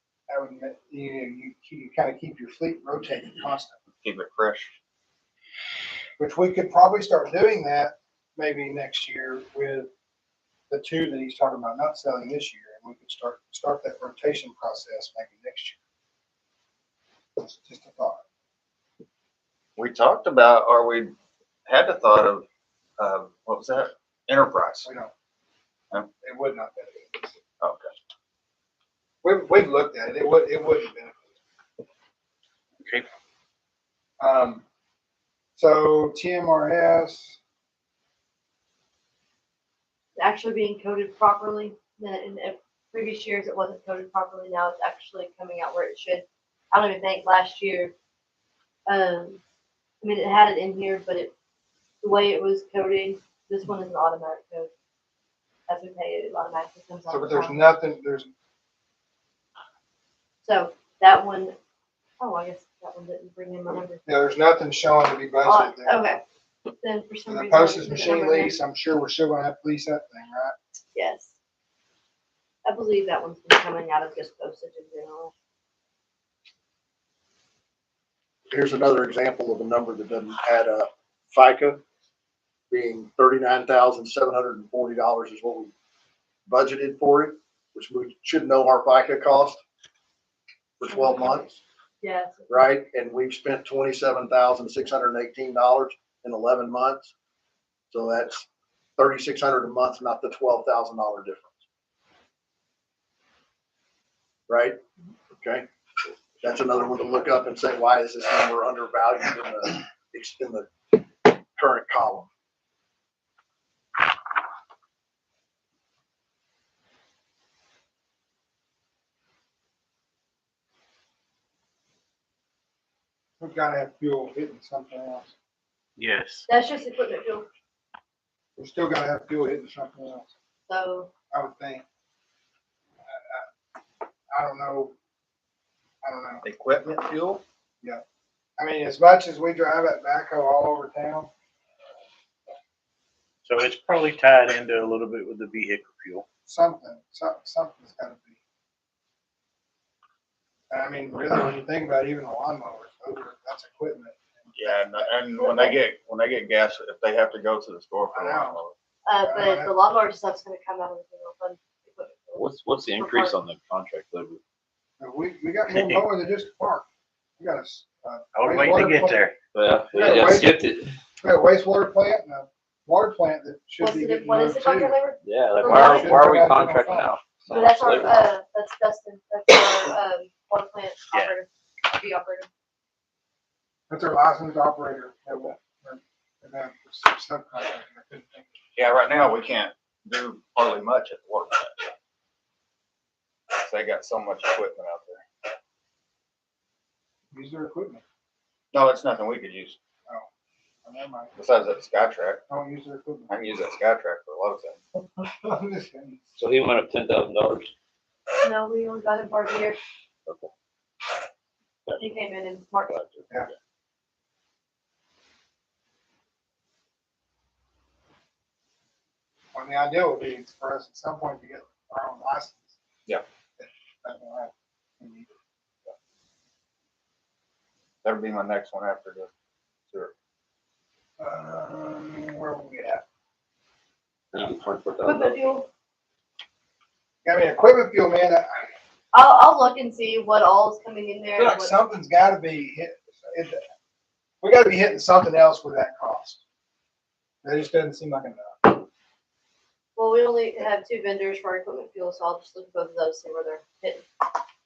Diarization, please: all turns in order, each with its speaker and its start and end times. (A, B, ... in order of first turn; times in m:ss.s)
0:00.3-0:03.8 A
0:04.0-0:04.7 B
0:06.2-0:09.9 A
0:10.7-0:15.8 A
0:17.4-0:18.2 A
0:19.8-0:21.2 B
0:21.7-0:22.4 B
0:23.0-0:24.9 B
0:24.8-0:25.1 A
0:26.2-0:27.4 A
0:27.6-0:27.9 B
0:29.2-0:31.3 A
0:34.2-0:34.6 A
0:35.6-0:37.4 A
0:40.2-0:47.9 C
0:48.9-0:49.4 C
0:50.0-0:51.3 C
0:52.0-0:54.7 C
0:55.7-0:57.6 C
0:57.1-0:58.3 A
1:00.4-1:01.6 C
1:02.2-1:04.0 C
1:04.1-1:06.0 A
1:05.4-1:06.2 C
1:06.8-1:08.6 C
1:07.3-1:10.6 A
1:11.0-1:11.3 C
1:12.6-1:15.3 C
1:18.5-1:21.8 D
1:22.7-1:25.7 D
1:26.5-1:29.6 D
1:30.8-1:31.6 D
1:30.9-1:31.4 C
1:32.0-1:32.7 C
1:32.5-1:37.1 D
1:37.9-1:38.5 D
1:39.0-1:41.5 D
1:44.5-1:44.8 D
1:45.3-1:45.7 D
1:46.4-1:52.3 D
2:03.4-2:05.3 A
2:06.0-2:06.5 E
2:06.5-2:07.5 C
2:08.6-2:10.3 A
2:10.7-2:11.1 C
2:11.3-2:11.8 A
2:13.1-2:13.5 A
2:14.3-2:14.9 A
2:16.0-2:16.4 A
2:16.4-2:17.4 B
2:18.6-2:21.3 A
2:23.5-2:26.3 E
2:26.5-2:28.4 A
2:30.7-2:35.1 A
2:34.6-2:38.7 B
2:38.1-2:38.6 A
2:39.1-2:43.4 C
2:39.2-2:39.8 A
2:42.4-2:44.4 F
2:45.0-2:46.9 A
2:47.4-2:49.3 A
2:48.4-2:49.4 E
2:49.5-2:50.9 F
2:49.9-2:50.6 A
2:51.2-2:55.0 A
2:53.8-2:56.2 C
2:55.2-2:58.2 F
2:55.6-2:57.1 A
2:57.5-3:02.5 C
3:03.9-3:08.5 A
3:08.8-3:11.9 B
3:13.5-3:15.3 B
3:17.3-3:18.0 A
3:18.7-3:19.8 B
3:20.8-3:21.4 A
3:21.4-3:22.4 B
3:22.5-3:23.3 A
3:23.3-3:24.8 B
3:25.2-3:26.2 A
3:26.4-3:27.7 F
3:28.4-3:29.8 C
3:30.3-3:30.5 F
3:31.9-3:32.9 C
3:32.9-3:33.5 F
3:39.5-3:42.8 A
3:43.6-3:45.3 A
3:48.0-3:49.3 B
3:51.2-3:53.0 A
3:54.3-3:55.6 F
3:55.0-3:55.7 C
3:57.2-3:58.7 A
3:59.1-4:01.8 C
4:01.3-4:03.6 A
4:04.4-4:06.4 A
4:07.4-4:08.8 A
4:10.0-4:14.0 C